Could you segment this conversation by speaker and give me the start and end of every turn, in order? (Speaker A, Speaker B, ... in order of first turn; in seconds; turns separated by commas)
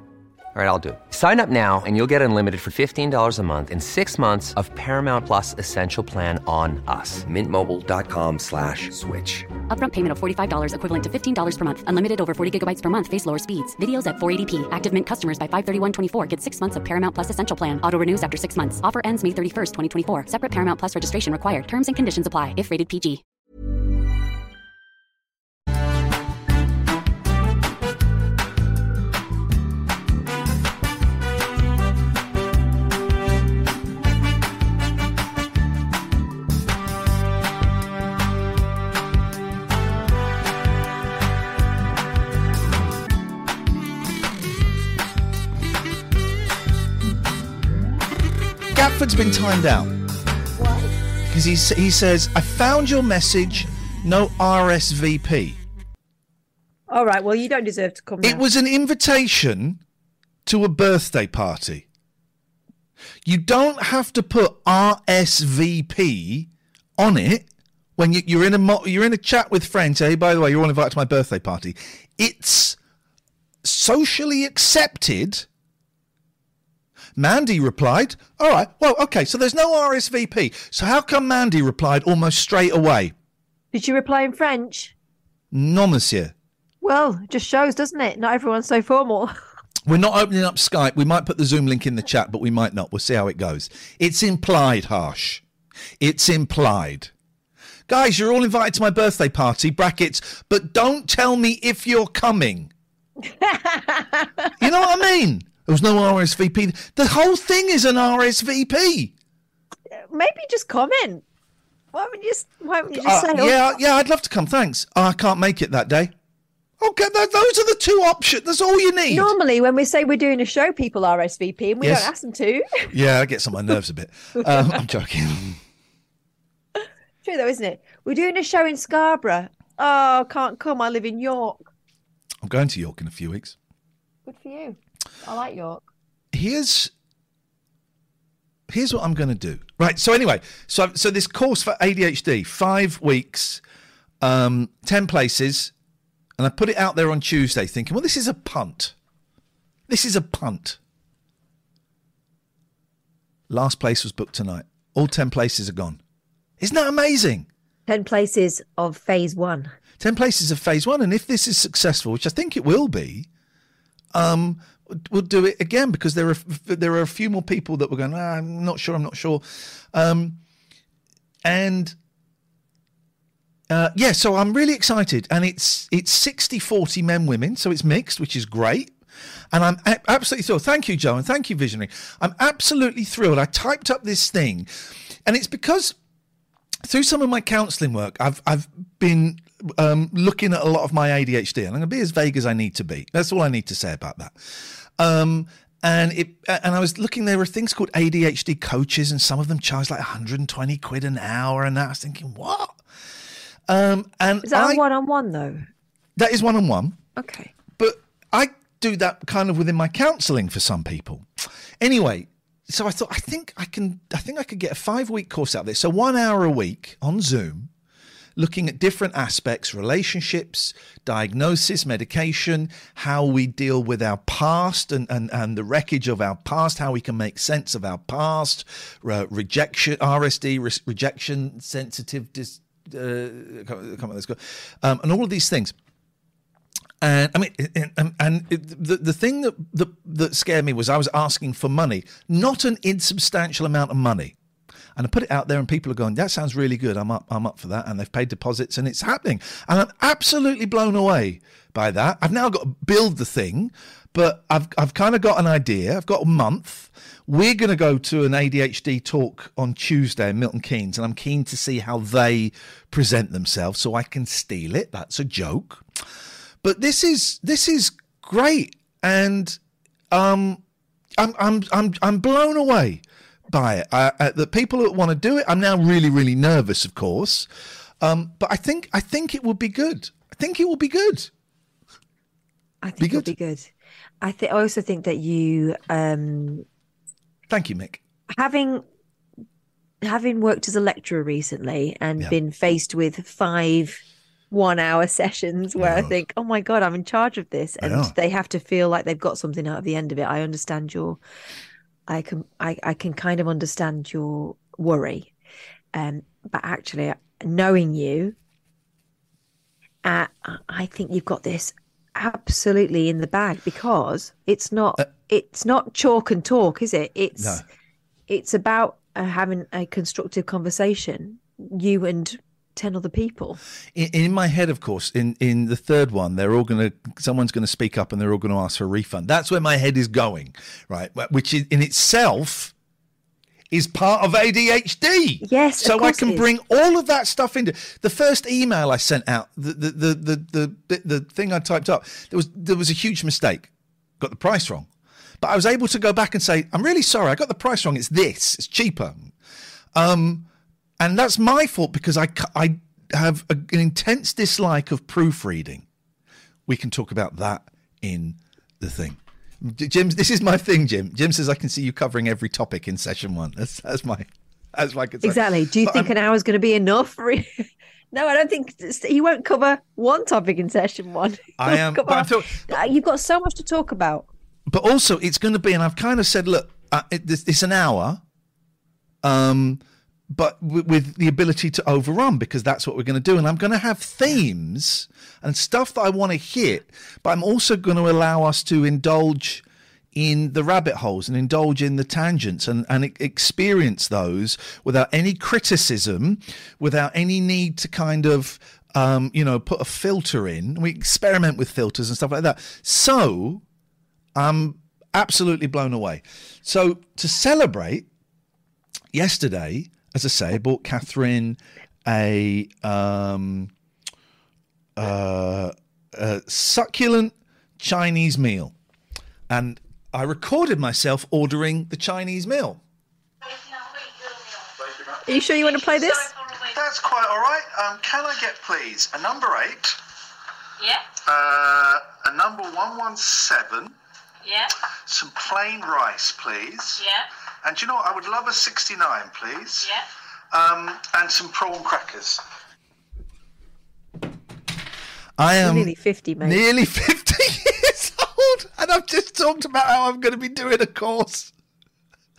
Speaker A: 0.5-9.5, Speaker B: 9.7-23.2, Speaker C: 48.7-49.9, Speaker D: 50.6-50.9, Speaker C: 51.2-55.6, Speaker D: 56.9-58.4, Speaker C: 58.2-59.8, Speaker C: 60.5-61.9, Speaker C: 63.2-72.8, Speaker C: 73.6-75.5, Speaker C: 77.2-83.1, Speaker D: 83.7-84.9, Speaker C: 85.5-86.3, Speaker D: 86.8-89.3, Speaker C: 89.8-95.4, Speaker C: 96.0-97.1, Speaker C: 97.9-102.7, Speaker D: 103.4-104.5, Speaker C: 104.6-109.1, Speaker D: 109.9-111.2, Speaker D: 111.9-113.6, Speaker C: 112.9-116.1, Speaker C: 116.8-119.3, Speaker D: 119.1-122.9, Speaker C: 121.8-122.1, Speaker C: 122.9-125.6, Speaker D: 124.4-124.7, Speaker D: 127.2-131.6, Speaker C: 132.4-133.6, Speaker D: 134.2-135.8, Speaker C: 136.3-136.9, Speaker C: 138.7-143.6, Speaker C: 144.2-145.7, Speaker C: 146.4-148.9, Speaker C: 149.9-150.8, Speaker C: 153.5-156.0, Speaker C: 156.6-157.5, Speaker D: 157.9-159.7, Speaker C: 160.0-163.3, Speaker C: 164.1-170.4, Speaker C: 171.4-171.9, Speaker C: 173.7-178.9, Speaker C: 179.5-185.9, Speaker C: 186.8-202.8, Speaker C: 203.7-204.8, Speaker D: 204.4-205.7, Speaker C: 206.2-207.0, Speaker D: 207.2-207.5, Speaker C: 207.8-211.3, Speaker C: 211.8-217.7, Speaker C: 218.3-235.7, Speaker C: 237.0-244.3, Speaker C: 244.9-265.9, Speaker C: 266.6-269.6, Speaker C: 270.1-270.6, Speaker C: 271.2-277.5, Speaker C: 278.0-281.3, Speaker D: 282.8-283.7, Speaker C: 283.0-283.3, Speaker D: 284.2-286.6, Speaker C: 287.5-288.0, Speaker D: 288.3-288.8, Speaker D: 290.0-294.0, Speaker D: 294.5-301.2, Speaker C: 295.8-296.1, Speaker C: 297.8-298.1, Speaker D: 302.1-305.3, Speaker D: 305.9-308.4, Speaker D: 310.0-317.6, Speaker C: 317.4-317.6, Speaker D: 318.3-323.6, Speaker C: 323.9-332.7, Speaker C: 333.7-344.9, Speaker D: 335.4-336.5, Speaker C: 345.4-349.3, Speaker C: 349.9-350.5, Speaker C: 351.0-355.9, Speaker C: 356.7-366.1, Speaker D: 365.2-374.3, Speaker C: 371.6-372.8, Speaker C: 374.7-378.2, Speaker C: 379.2-389.6, Speaker C: 390.1-403.6, Speaker C: 404.3-408.1, Speaker C: 409.1-413.7, Speaker C: 414.9-418.7, Speaker C: 419.5-422.8, Speaker C: 424.8-425.2, Speaker D: 425.2-426.3, Speaker C: 426.5-430.0, Speaker C: 430.8-433.9, Speaker C: 434.5-442.4, Speaker C: 445.4-451.5, Speaker D: 445.6-446.6